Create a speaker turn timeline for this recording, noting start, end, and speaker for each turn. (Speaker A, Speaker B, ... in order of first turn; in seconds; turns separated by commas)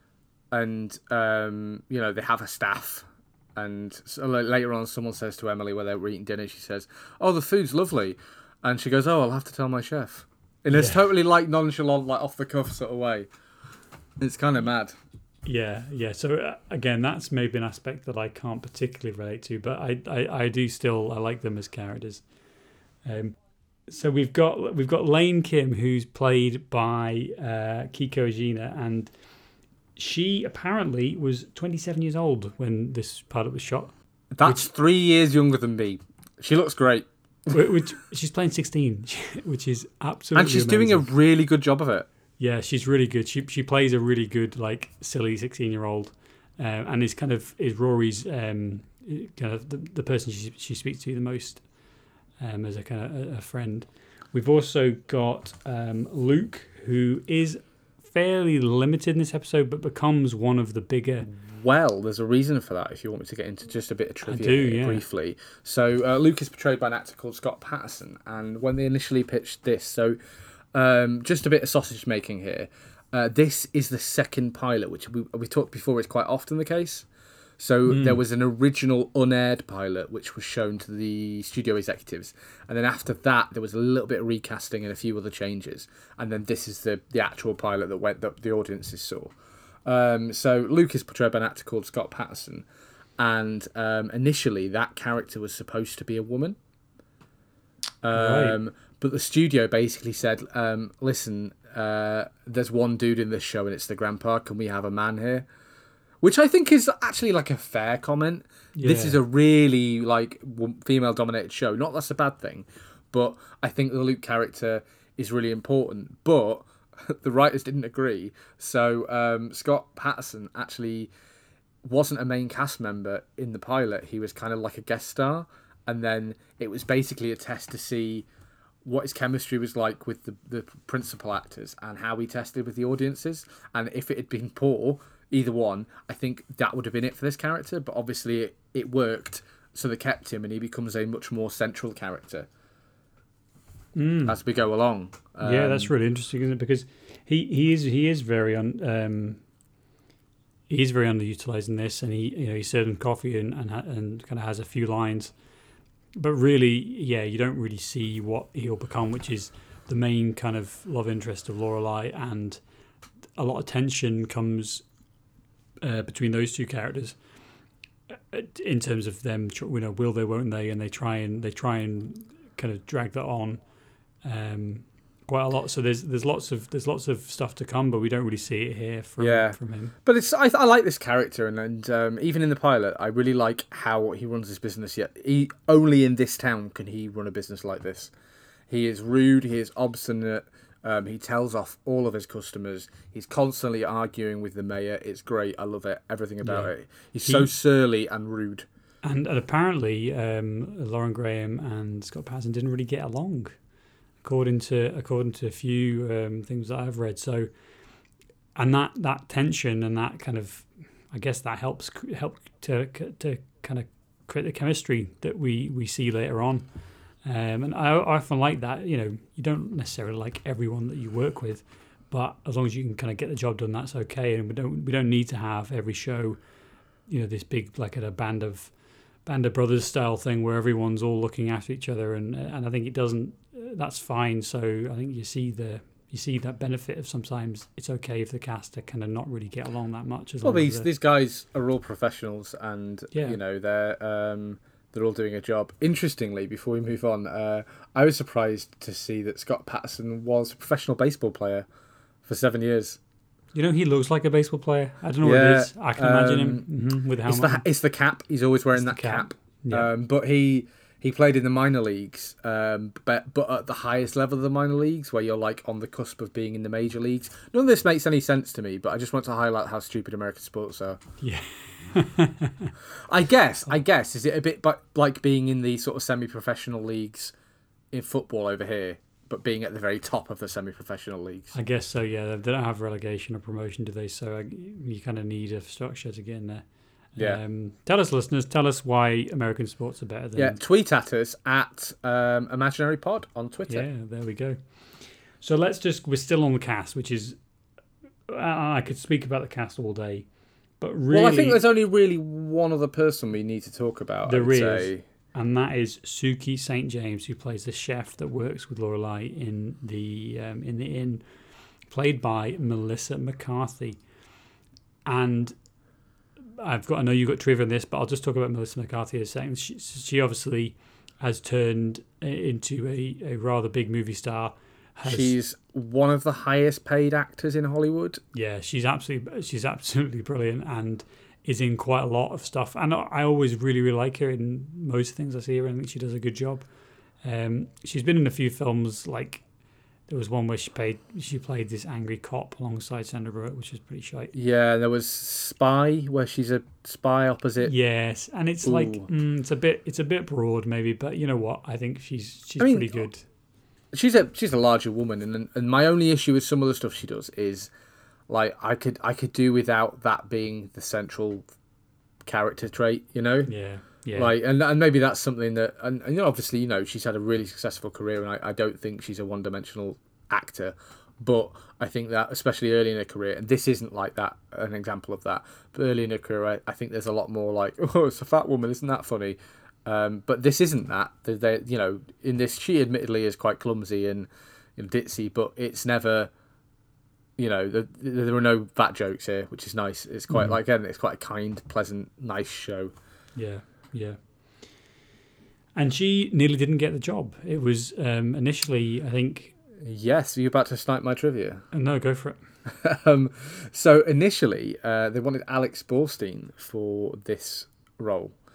Speaker A: 0.5-13.3, Speaker B: 10.7-11.0, Speaker A: 14.2-15.0, Speaker B: 15.4-22.2, Speaker B: 23.0-29.1, Speaker B: 29.9-34.7, Speaker A: 34.3-37.6, Speaker B: 37.5-41.1, Speaker A: 40.3-42.1, Speaker B: 42.4-51.6, Speaker B: 52.4-61.3, Speaker A: 61.2-70.2, Speaker B: 64.2-65.0, Speaker A: 70.7-77.1, Speaker A: 77.6-89.3, Speaker B: 77.9-78.2, Speaker A: 89.8-92.7, Speaker A: 93.2-96.6, Speaker A: 98.0-105.5, Speaker B: 98.1-98.6, Speaker A: 106.2-121.1, Speaker B: 108.8-109.2, Speaker A: 121.8-128.3, Speaker A: 128.8-142.5, Speaker B: 143.9-144.3, Speaker A: 144.2-145.9, Speaker B: 145.4-149.4, Speaker B: 150.7-155.3, Speaker B: 156.2-162.6, Speaker B: 163.4-164.8, Speaker B: 165.8-167.2, Speaker B: 168.1-173.6, Speaker B: 174.2-179.9, Speaker A: 179.2-188.1, Speaker A: 188.7-198.7, Speaker B: 196.4-196.7, Speaker B: 197.2-197.5, Speaker B: 199.0-203.6, Speaker B: 204.2-207.5, Speaker B: 208.5-216.7, Speaker B: 217.2-226.4, Speaker B: 227.1-240.9, Speaker A: 240.4-251.7, Speaker B: 243.1-243.4, Speaker A: 252.2-253.0, Speaker B: 253.5-257.6, Speaker A: 255.2-256.6, Speaker A: 257.2-271.0, Speaker B: 258.7-259.9, Speaker B: 271.2-272.7, Speaker A: 273.0-277.3, Speaker A: 277.9-281.5, Speaker B: 281.5-290.6, Speaker A: 290.4-293.9, Speaker B: 293.7-294.6, Speaker B: 295.4-297.4, Speaker B: 298.3-300.3, Speaker B: 300.8-301.6, Speaker A: 301.1-305.0, Speaker B: 304.2-311.2, Speaker B: 311.9-314.0, Speaker B: 315.1-315.6, Speaker B: 316.6-325.3, Speaker A: 325.0-328.2, Speaker B: 328.3-336.7, Speaker B: 337.2-339.4, Speaker B: 340.1-344.3, Speaker A: 344.3-347.7, Speaker B: 347.6-353.2, Speaker A: 348.6-349.1, Speaker A: 352.6-353.0, Speaker A: 353.9-357.7, Speaker A: 358.3-361.5, Speaker A: 362.2-363.5, Speaker B: 363.5-364.3, Speaker A: 364.1-386.3, Speaker A: 387.4-392.9, Speaker B: 390.3-390.5, Speaker B: 393.4-394.2, Speaker B: 395.8-399.5, Speaker A: 399.8-401.6, Speaker B: 401.7-402.4, Speaker A: 402.7-408.3